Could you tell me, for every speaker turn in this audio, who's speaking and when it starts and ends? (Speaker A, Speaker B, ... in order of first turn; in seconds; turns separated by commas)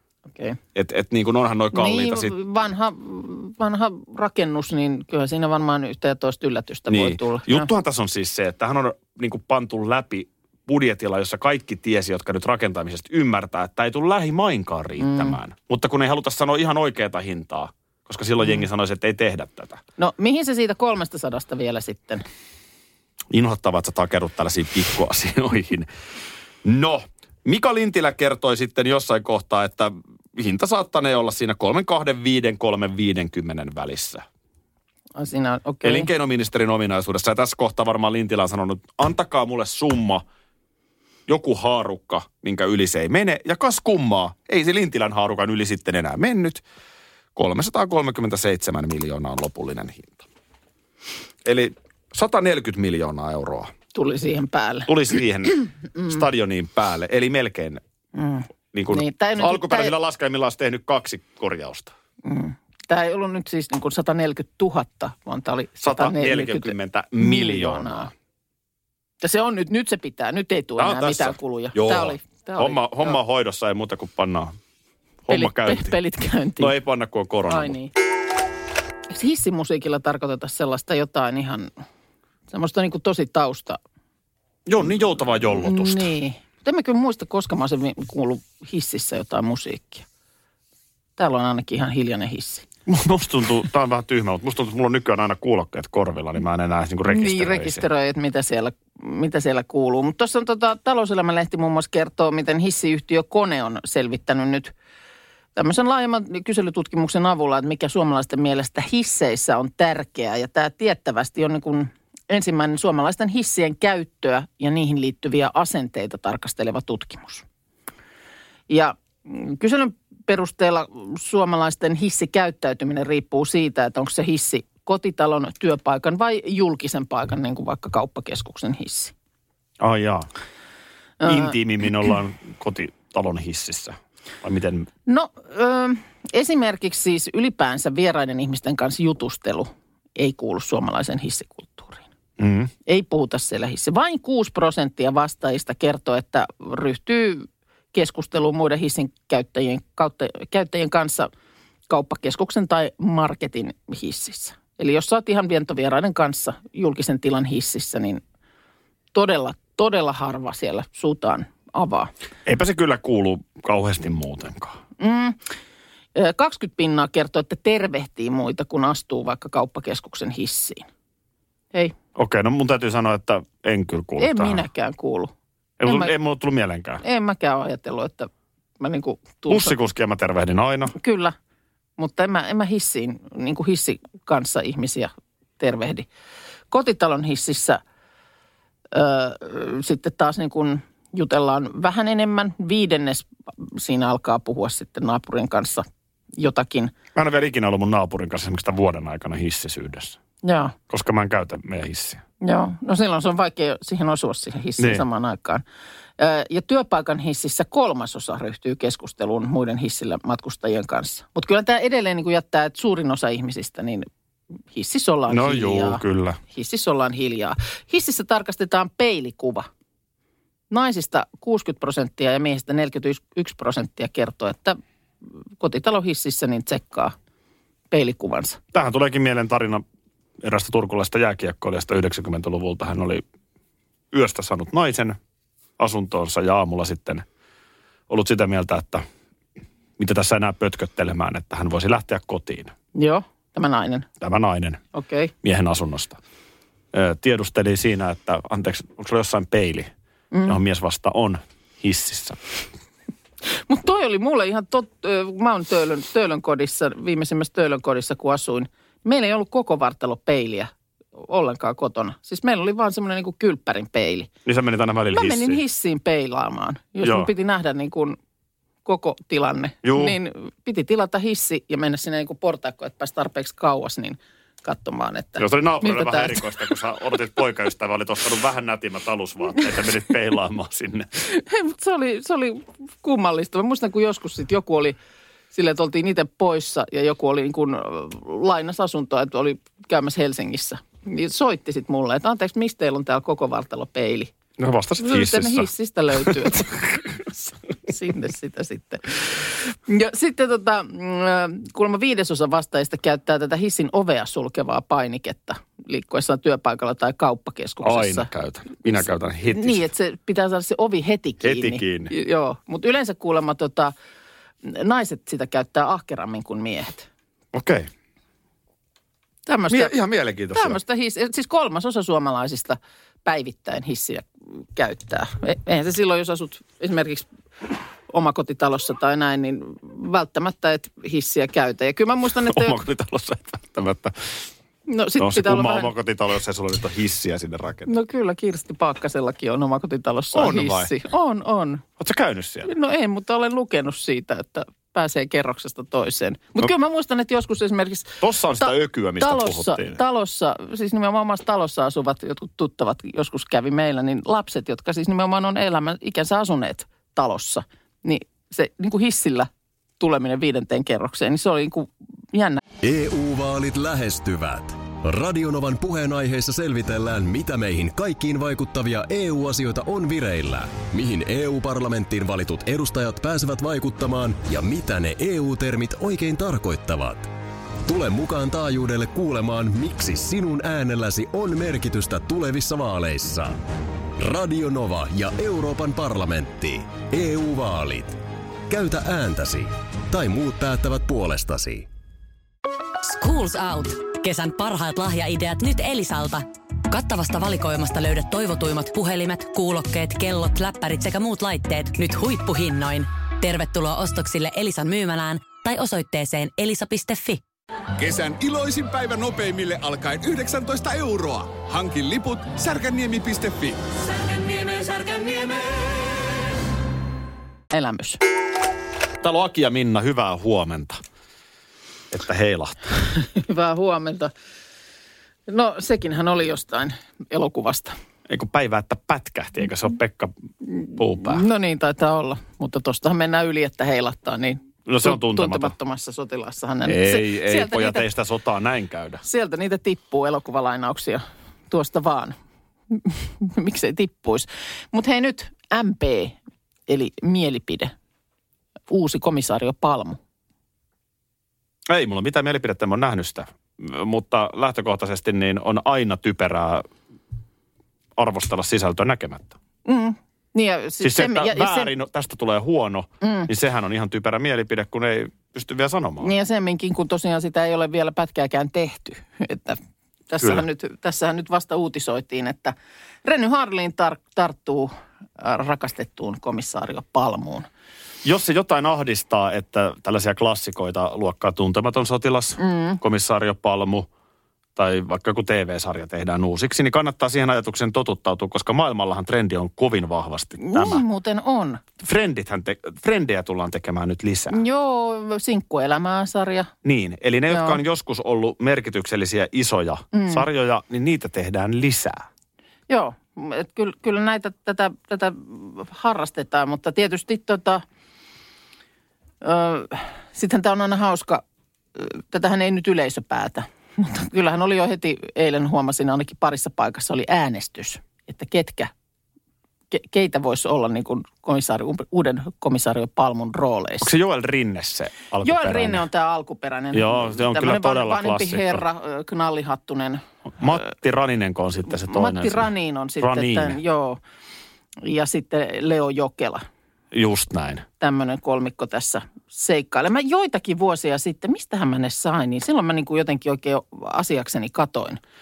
Speaker A: 0.8-2.3, Speaker B: 1.7-7.7, Speaker A: 6.9-19.8, Speaker B: 15.0-15.4, Speaker B: 20.0-22.2, Speaker A: 23.3-25.9, Speaker A: 26.6-34.2, Speaker B: 35.2-36.1, Speaker A: 35.8-40.2, Speaker A: 41.3-46.6, Speaker A: 47.4-50.2, Speaker A: 51.5-53.7, Speaker B: 53.9-54.9, Speaker A: 54.9-57.8, Speaker B: 58.1-59.9, Speaker A: 58.7-61.9, Speaker B: 62.2-68.1, Speaker A: 65.8-68.1, Speaker B: 69.2-73.2, Speaker A: 70.8-74.6, Speaker A: 75.3-76.0, Speaker B: 75.3-76.7, Speaker A: 76.6-77.7, Speaker B: 77.5-77.9, Speaker B: 79.1-81.7, Speaker B: 82.5-83.8, Speaker A: 84.7-86.1, Speaker B: 85.6-90.1, Speaker B: 91.2-92.7, Speaker A: 92.9-97.8, Speaker B: 97.1-104.7, Speaker B: 105.6-117.5, Speaker B: 118.7-129.1, Speaker A: 129.8-130.3, Speaker B: 131.2-131.6, Speaker A: 131.2-134.9, Speaker B: 135.1-142.1, Speaker A: 142.4-142.7, Speaker B: 142.9-151.3, Speaker B: 151.9-158.2, Speaker B: 159.1-162.1, Speaker A: 162.5-164.8, Speaker B: 165.0-165.4, Speaker B: 166.2-170.9, Speaker A: 172.2-174.6, Speaker B: 174.2-175.3, Speaker A: 175.8-177.0, Speaker B: 175.8-176.1, Speaker B: 177.0-179.7, Speaker A: 179.5-180.9, Speaker B: 180.9-181.3, Speaker B: 182.0-186.1, Speaker B: 186.7-187.8, Speaker B: 188.9-195.9, Speaker B: 196.4-196.9, Speaker A: 197.2-200.2, Speaker B: 200.4-200.8, Speaker A: 200.9-202.2, Speaker B: 202.4-205.6, Speaker A: 204.8-205.1, Speaker B: 206.2-214.1, Speaker B: 214.7-219.7, Speaker A: 215.3-216.4, Speaker B: 220.7-224.8, Speaker B: 225.6-227.2, Speaker B: 227.9-228.6, Speaker A: 228.7-229.8, Speaker A: 230.4-233.2, Speaker A: 234.1-235.2, Speaker A: 235.8-237.2, Speaker A: 238.1-239.0, Speaker A: 240.0-242.7, Speaker B: 242.9-244.1, Speaker A: 244.2-244.8, Speaker B: 244.9-245.3, Speaker A: 245.4-246.2, Speaker A: 246.9-249.9, Speaker B: 250.3-250.6, Speaker A: 250.5-252.4, Speaker B: 253.5-264.3, Speaker A: 264.4-265.6, Speaker B: 265.1-268.2, Speaker A: 267.0-267.3, Speaker B: 268.9-276.5, Speaker A: 269.8-270.2, Speaker A: 275.4-281.1, Speaker B: 281.3-285.0, Speaker B: 285.5-294.3, Speaker A: 294.6-297.0, Speaker B: 295.0-296.7, Speaker B: 297.9-308.3, Speaker A: 307.8-309.9, Speaker B: 309.5-313.9, Speaker A: 311.4-312.1, Speaker B: 314.6-317.1, Speaker A: 317.5-317.9, Speaker B: 319.5-319.9, Speaker A: 319.7-320.8, Speaker B: 320.5-327.3, Speaker B: 328.1-332.8, Speaker A: 332.5-334.5, Speaker B: 334.9-335.9, Speaker A: 335.2-337.9, Speaker B: 337.9-341.9, Speaker A: 340.3-340.9, Speaker A: 342.0-342.7, Speaker B: 342.7-359.5, Speaker A: 348.2-350.0, Speaker B: 360.0-362.6, Speaker C: 362.8-377.3, Speaker C: 377.9-383.6, Speaker C: 384.2-391.9, Speaker D: 393.0-407.4, Speaker E: 408.0-415.5, Speaker B: 417.7-418.2, Speaker A: 419.2-421.0, Speaker A: 422.1-422.8, Speaker B: 423.1-424.3, Speaker B: 425.5-428.0, Speaker A: 428.3-430.3, Speaker B: 430.8-438.1, Speaker A: 431.0-431.5, Speaker A: 434.9-435.7, Speaker A: 436.9-439.2, Speaker B: 439.2-442.4, Speaker B: 442.9-446.4, Speaker B: 446.9-447.9, Speaker B: 448.9-450.2, Speaker A: 451.9-456.9, Speaker A: 458.2-459.6, Speaker B: 459.9-461.9, Speaker A: 461.0-466.3, Speaker B: 463.2-463.5, Speaker B: 466.2-469.8, Speaker B: 470.3-477.7, Speaker A: 478.2-484.1, Speaker B: 482.6-483.0, Speaker A: 484.8-491.0, Speaker B: 490.6-491.8, Speaker A: 492.0-494.6, Speaker B: 494.5-496.7, Speaker A: 496.8-502.2, Speaker B: 497.5-497.8, Speaker B: 500.1-500.4, Speaker B: 502.9-507.8, Speaker B: 509.4-511.4, Speaker B: 512.0-518.9, Speaker B: 519.9-524.1, Speaker A: 524.0-526.1, Speaker B: 525.4-530.2, Speaker A: 526.9-528.8, Speaker A: 530.5-532.7, Speaker B: 532.1-534.2, Speaker A: 533.2-533.8, Speaker B: 535.0-536.6, Speaker A: 537.1-537.9, Speaker B: 538.0-545.2